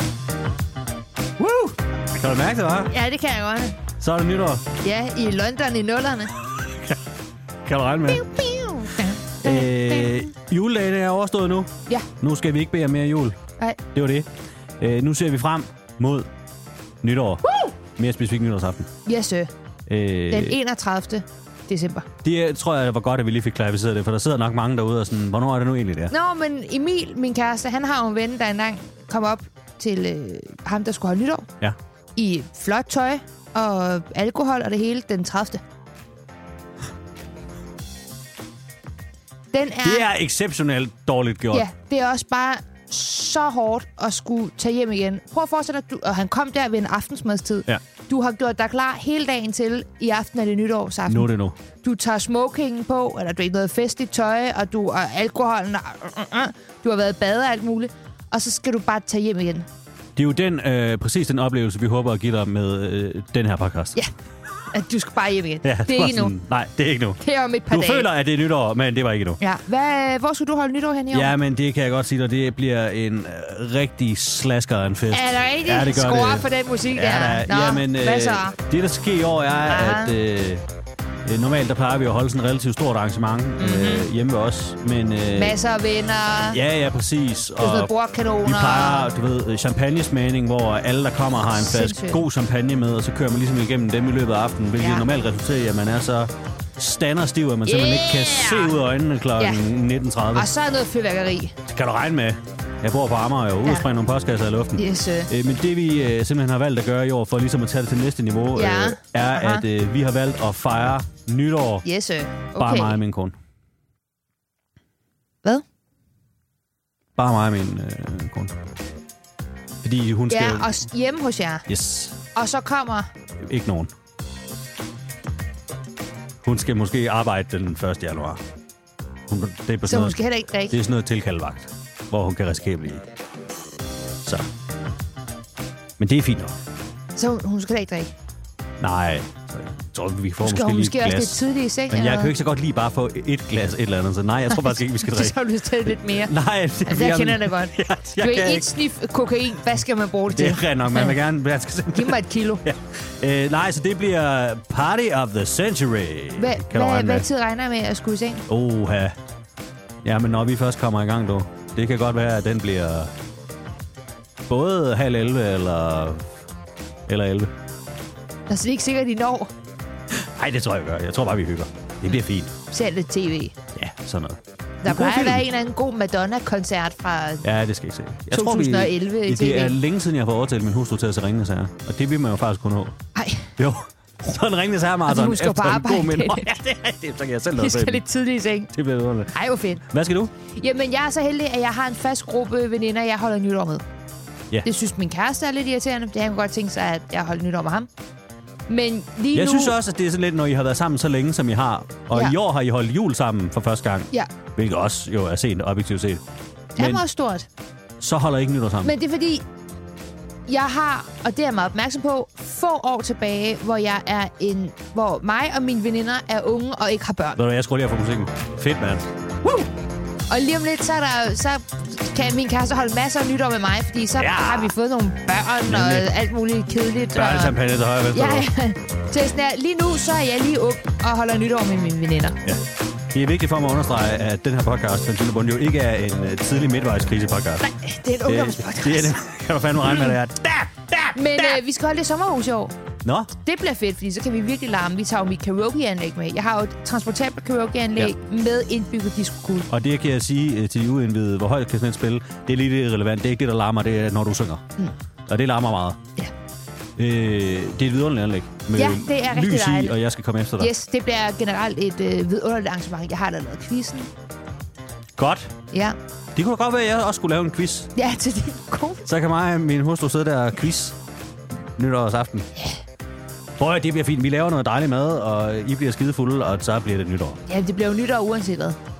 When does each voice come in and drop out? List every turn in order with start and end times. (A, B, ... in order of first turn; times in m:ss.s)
0:01.4-0:02.9 A
0:02.9-0:03.8 B
0:04.0-0:04.6 A
0:04.8-0:06.3 B
0:06.7-0:07.0 A
0:07.6-0:08.2 A
0:08.1-0:10.3 B
0:09.4-0:13.4 A
0:13.9-0:16.3 A
0:17.0-0:18.9 A
0:17.4-0:17.7 B
0:19.0-0:19.5 B
0:19.9-0:20.6 A
0:20.3-0:22.1 B
0:22.2-0:26.1 A
0:26.1-0:31.5 B
0:32.2-0:35.6 B
0:39.5-0:40.1 B
0:39.8-0:41.7 A
0:41.5-0:51.3 B
0:51.1-0:51.6 A
0:51.8-0:59.7 B
1:00.2-1:04.0 A
1:04.7-1:06.4 B
1:05.6-1:09.4 A
1:07.2-1:08.1 B
1:09.4-1:11.3 B
1:11.1-1:20.6 A
1:15.1-1:18.6 B
1:19.7-1:20.1 B
1:21.2-1:25.6 A
1:23.6-1:24.1 B
1:25.3-1:26.6 B
1:26.5-1:27.9 A
1:27.6-1:29.1 B
1:28.4-1:40.5 A
1:31.5-1:32.2 B
1:34.8-1:35.1 B
1:37.6-1:38.8 B
1:39.4-1:39.6 B
1:40.3-1:41.5 B
1:41.7-1:51.8 A
1:44.8-1:45.3 B
1:48.5-1:49.6 B
1:51.8-1:53.0 B
1:52.5-1:53.3 A
1:57.2-1:58.6 A
1:59.8-2:00.8 A
2:00.3-2:01.6 B
2:01.7-2:02.2 A
2:02.3-2:03.1 B
2:03.4-2:03.9 A
2:06.4-2:08.4 A
2:09.3-2:10.2 A
2:09.8-2:10.8 B
2:10.7-2:13.0 A
2:14.2-2:14.5 A
2:16.0-2:16.6 A
2:17.2-2:18.1 B
2:18.8-2:28.7 A
2:20.4-2:22.3 B
2:24.5-2:26.3 B
2:26.8-2:31.2 B
2:30.3-2:37.3 A
2:31.9-2:32.6 B
2:36.4-2:38.4 B
2:38.5-2:39.2 A
2:40.0-2:43.1 A
2:44.5-2:46.4 A
2:47.1-2:47.5 A
2:48.5-2:49.5 B
2:50.1-2:52.5 A
2:52.7-2:53.6 B
2:53.7-2:55.4 A
2:54.8-2:57.5 B
2:57.4-3:03.0 A
2:58.3-2:59.8 B
3:03.1-3:03.5 B
3:03.6-3:08.0 A
3:05.0-3:06.6 B
3:07.6-3:08.7 B
3:08.7-3:09.3 A
3:09.3-3:09.8 B
3:09.8-3:10.3 A
3:10.5-3:13.8 B
3:14.6-3:17.9 B
3:18.7-3:19.8 B
3:19.3-3:26.2 A
3:26.8-3:27.0 A
3:26.8-3:27.5 B
3:28.0-3:28.9 A
3:28.8-3:29.4 B
3:30.5-3:37.4 B
3:37.4-3:39.1 A
3:40.3-3:47.6 B
3:44.2-3:44.7 A
3:45.6-3:46.1 A
3:47.1-3:48.5 A
3:48.1-3:52.4 B
3:52.4-3:57.6 A
3:57.6-3:59.1 B
3:58.2-4:01.6 A
3:59.9-4:00.1 B
4:01.1-4:02.7 B
4:03.0-4:03.3 A
4:03.4-4:09.7 B
4:09.7-4:14.6 A
4:15.3-4:16.0 A
4:17.0-4:20.7 A
4:18.7-4:20.0 B
4:20.6-4:24.1 B
4:25.2-4:25.5 A
4:25.7-4:26.0 B
4:26.3-4:27.9 A
4:28.0-4:29.0 B
4:29.0-4:31.0 A
4:31.8-4:32.5 A
4:33.6-4:37.4 A
4:37.5-4:38.8 B